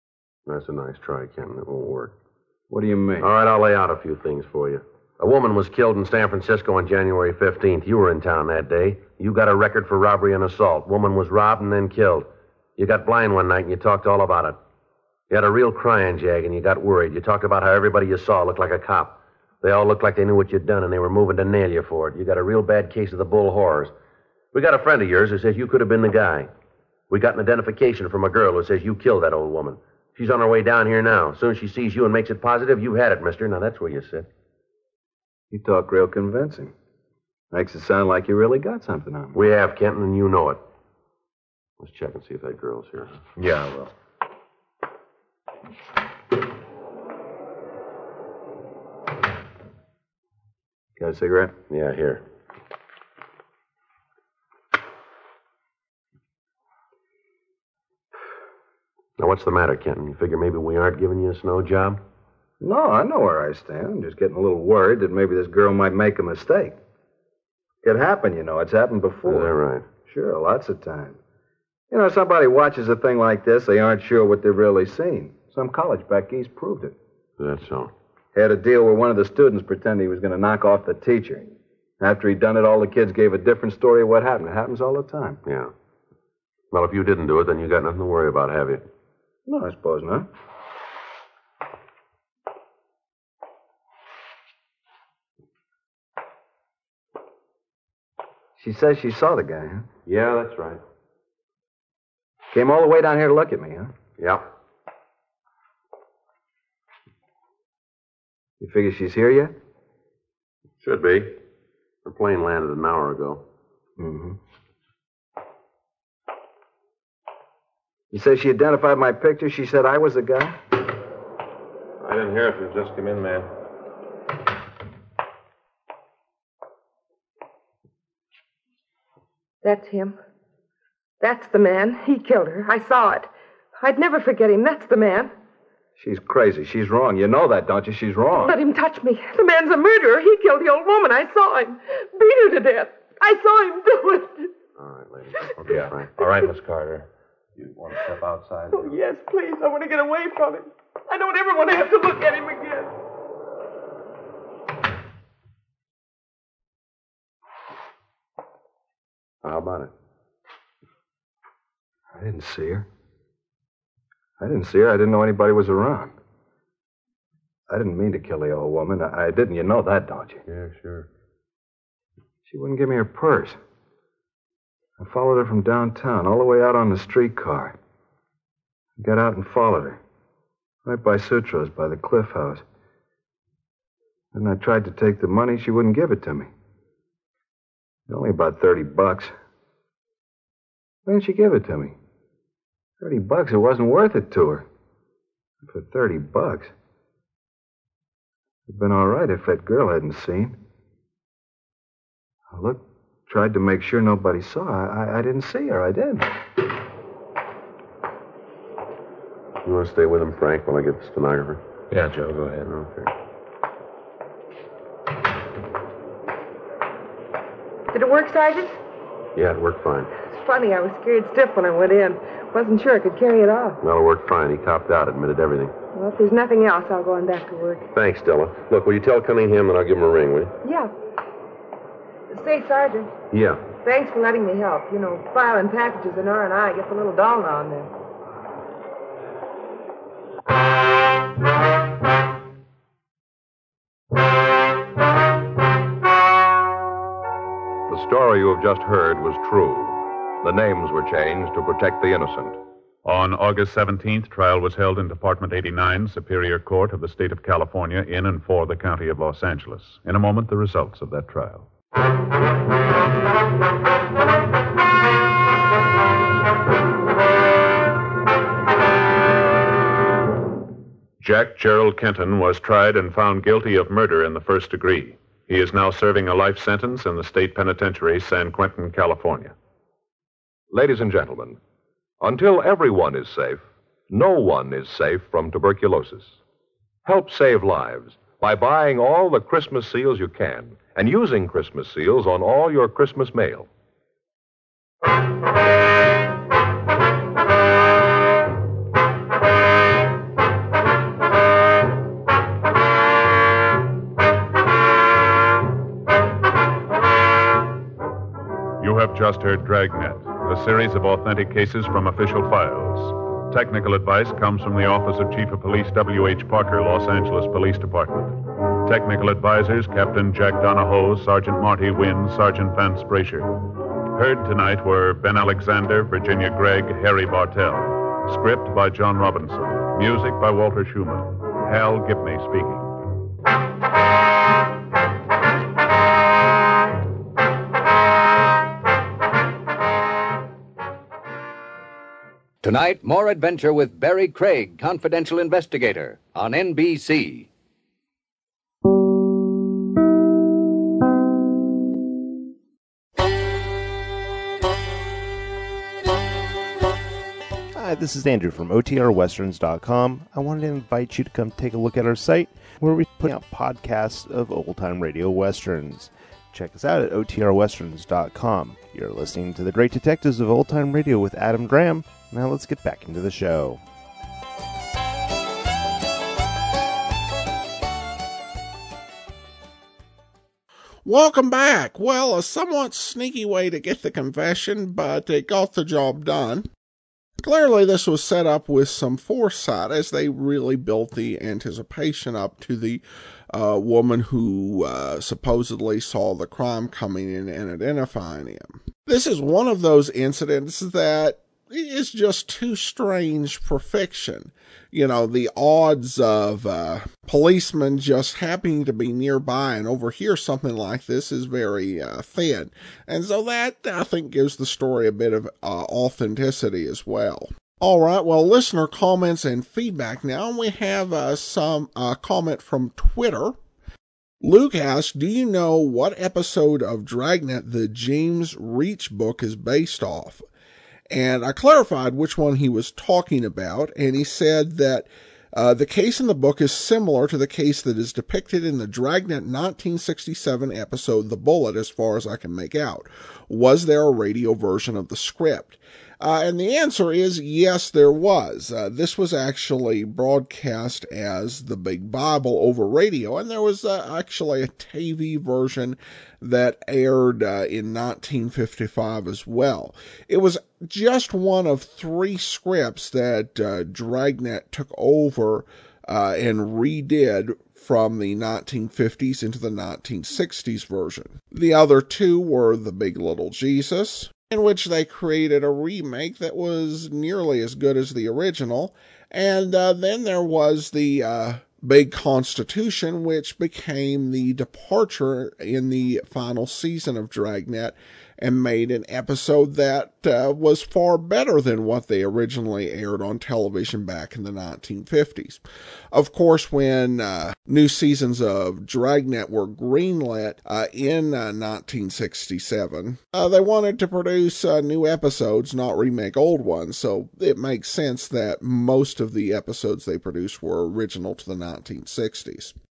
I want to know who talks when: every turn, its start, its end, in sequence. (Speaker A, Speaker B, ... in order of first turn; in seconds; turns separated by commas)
Speaker A: 0.5-2.1, Speaker B: 2.7-3.3, Speaker A: 3.2-14.6, Speaker A: 15.3-23.9, Speaker A: 24.5-26.5, Speaker A: 27.1-34.3, Speaker B: 35.5-36.7, Speaker B: 37.5-39.4, Speaker A: 39.3-40.6, Speaker A: 41.8-43.2, Speaker C: 43.4-43.9, Speaker B: 51.0-51.5, Speaker A: 51.7-52.2, Speaker A: 59.2-62.0, Speaker B: 62.6-66.8, Speaker B: 67.8-71.2, Speaker A: 69.3-69.8, Speaker B: 71.9-76.9, Speaker A: 77.4-77.9, Speaker B: 78.3-85.4, Speaker A: 85.5-85.7, Speaker A: 86.7-88.9, Speaker B: 89.5-90.3, Speaker B: 98.6-99.9, Speaker A: 100.1-100.8, Speaker B: 102.5-103.9, Speaker A: 104.2-104.5, Speaker B: 108.6-109.5, Speaker A: 110.8-111.4, Speaker A: 112.0-113.4, Speaker B: 114.0-114.4, Speaker B: 118.1-120.6, Speaker C: 122.0-123.5, Speaker D: 129.6-130.2, Speaker D: 131.2-135.3, Speaker B: 136.0-138.6, Speaker D: 138.4-144.5, Speaker A: 144.8-146.1, Speaker C: 145.7-149.0, Speaker D: 148.7-152.9, Speaker A: 159.4-159.9, Speaker B: 162.1-162.9, Speaker B: 164.4-166.1, Speaker B: 167.7-170.4, Speaker A: 170.5-171.1, Speaker B: 172.5-173.6, Speaker B: 175.0-177.8, Speaker B: 179.0-180.0, Speaker B: 180.9-182.6, Speaker B: 184.3-186.5, Speaker B: 188.1-189.3, Speaker B: 191.1-192.0, Speaker B: 193.0-194.7, Speaker B: 195.7-196.7, Speaker B: 198.7-200.6, Speaker B: 202.5-206.3, Speaker A: 209.6-211.6, Speaker C: 211.9-212.7, Speaker A: 212.6-213.1, Speaker D: 217.9-218.8, Speaker A: 219.4-220.1, Speaker D: 220.3-223.8, Speaker A: 223.8-225.7, Speaker D: 225.9-227.9, Speaker A: 227.9-230.5, Speaker D: 230.6-230.9, Speaker D: 232.3-233.1, Speaker A: 233.3-233.6, Speaker D: 233.8-237.9, Speaker E: 247.9-252.6, Speaker F: 253.1-261.7, Speaker F: 271.2-279.5, Speaker E: 280.7-281.6, Speaker E: 282.2-286.4, Speaker E: 287.1-293.7, Speaker F: 308.8-323.5, Speaker F: 324.1-333.0, Speaker G: 342.6-347.5, Speaker H: 357.8-373.8, Speaker I: 381.1-386.7, Speaker I: 387.4-423.6, Speaker I: 424.4-430.4, Speaker I: 431.1-512.8